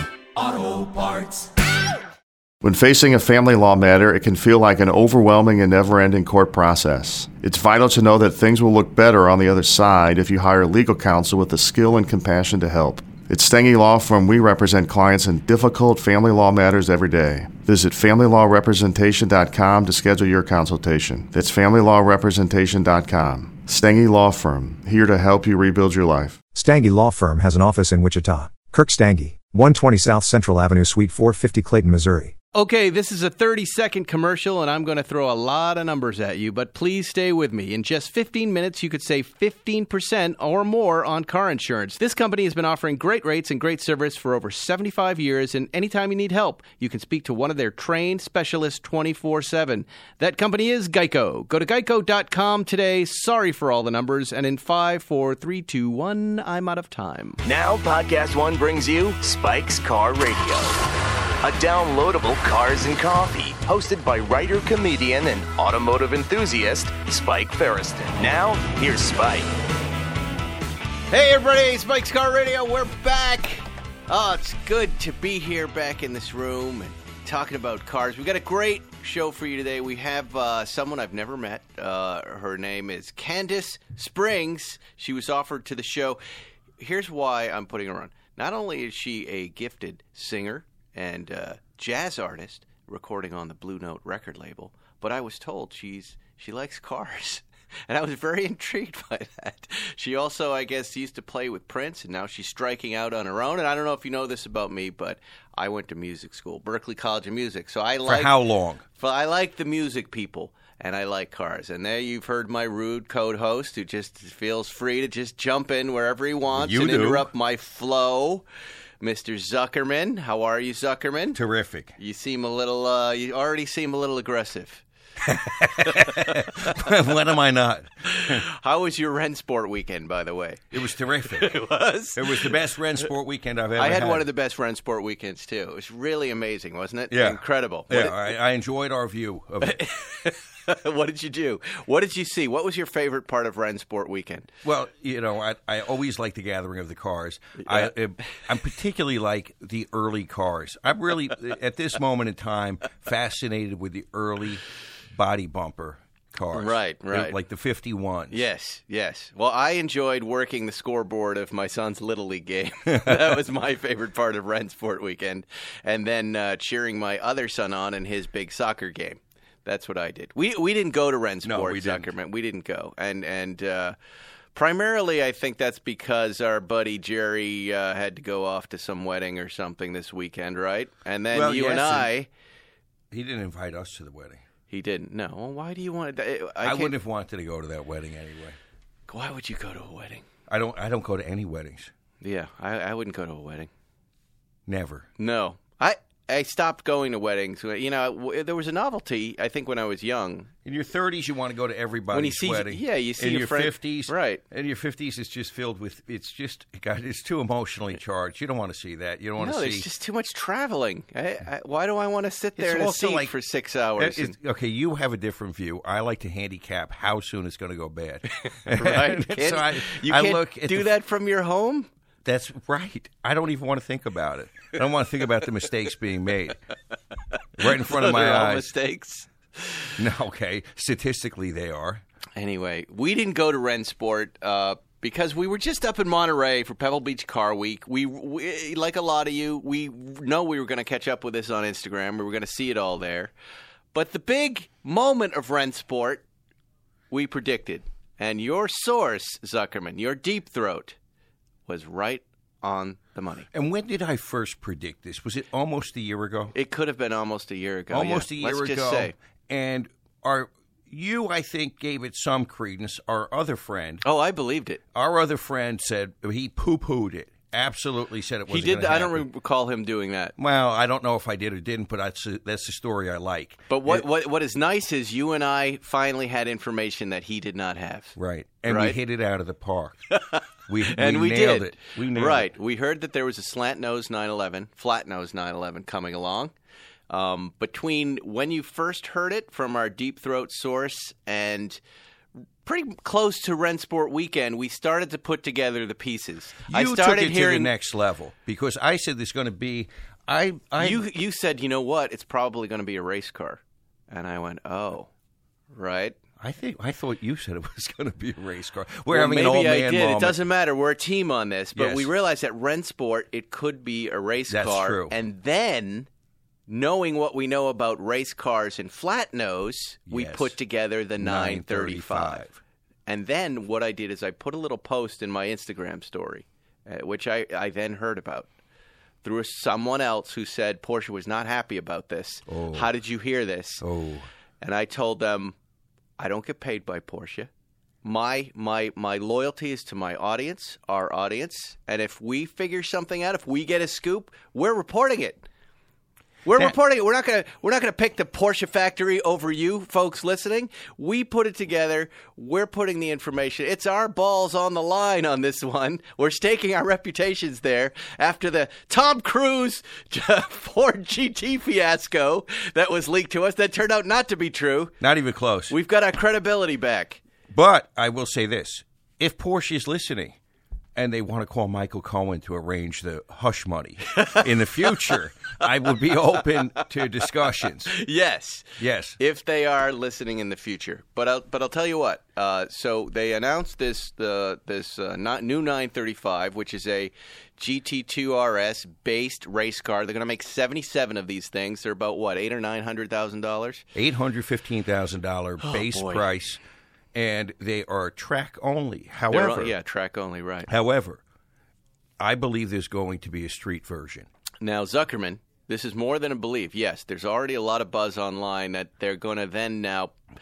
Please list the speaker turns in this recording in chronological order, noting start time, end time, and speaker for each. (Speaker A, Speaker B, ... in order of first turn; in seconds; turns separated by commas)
Speaker A: 0.4-1.3, Speaker B: 2.6-26.4, Speaker A: 26.5-32.3, Speaker C: 32.5-57.4, Speaker D: 57.4-60.8, Speaker D: 61.4-69.5, Speaker C: 71.1-86.2, Speaker C: 86.8-108.3, Speaker E: 108.0-108.8, Speaker C: 108.9-118.4, Speaker E: 116.5-117.3, Speaker C: 119.0-121.4, Speaker E: 121.3-121.9, Speaker C: 122.0-124.8, Speaker E: 125.2-128.4, Speaker C: 125.8-126.8, Speaker C: 128.1-130.8, Speaker E: 130.7-131.5, Speaker C: 131.3-132.6, Speaker E: 132.1-134.3, Speaker C: 133.8-138.3, Speaker E: 137.1-139.8, Speaker C: 139.6-144.5, Speaker E: 144.6-158.4, Speaker C: 147.6-147.9, Speaker C: 156.5-157.3, Speaker C: 158.3-173.9, Speaker E: 171.4-172.1, Speaker C: 174.5-182.3, Speaker E: 181.3-182.1, Speaker E: 183.1-184.4, Speaker C: 184.7-186.9, Speaker E: 186.6-188.6, Speaker C: 189.1-190.2, Speaker E: 190.5-191.9, Speaker C: 192.2-193.7, Speaker E: 194.7-195.1, Speaker C: 195.2-200.5, Speaker E: 200.6-209.9, Speaker C: 202.1-204.4, Speaker C: 209.4-214.3, Speaker E: 212.6-213.3, Speaker E: 213.9-220.9, Speaker C: 218.4-221.9, Speaker E: 222.2-226.6, Speaker E: 227.6-228.7, Speaker C: 227.7-229.9, Speaker E: 230.0-232.0, Speaker C: 232.4-243.3, Speaker C: 243.9-246.2, Speaker C: 247.1-250.9, Speaker C: 251.7-253.5, Speaker E: 253.5-256.5, Speaker C: 256.5-259.1, Speaker E: 257.9-264.0, Speaker C: 264.0-264.8, Speaker E: 264.9-269.2, Speaker C: 268.5-270.3, Speaker E: 270.4-274.1, Speaker C: 273.7-278.1, Speaker E: 278.1-280.0, Speaker C: 278.7-279.0, Speaker C: 280.3-286.5, Speaker E: 280.7-282.5, Speaker C: 287.1-291.8, Speaker C: 292.6-297.7, Speaker E: 296.7-301.0, Speaker C: 300.8-305.1, Speaker C: 305.7-306.1, Speaker E: 306.4-310.5, Speaker C: 309.1-316.1, Speaker E: 311.7-312.1, Speaker E: 314.5-315.1, Speaker C: 316.7-322.4, Speaker E: 320.1-320.5, Speaker E: 321.2-322.6, Speaker C: 323.1-328.5, Speaker C: 329.2-333.8, Speaker E: 332.5-332.9, Speaker E: 333.8-334.3, Speaker C: 334.6-335.5, Speaker C: 336.2-337.5, Speaker C: 338.0-345.4, Speaker C: 346.4-364.9, Speaker E: 365.0-365.7, Speaker C: 365.7-367.2, Speaker E: 367.5-370.4, Speaker E: 370.9-377.9, Speaker C: 374.1-375.2, Speaker C: 376.5-377.1, Speaker C: 377.6-393.8, Speaker E: 378.8-379.2, Speaker E: 393.9-396.6, Speaker C: 395.6-396.2, Speaker E: 397.1-399.7, Speaker C: 399.3-400.7, Speaker E: 400.7-401.2, Speaker E: 402.2-404.3, Speaker C: 404.6-410.1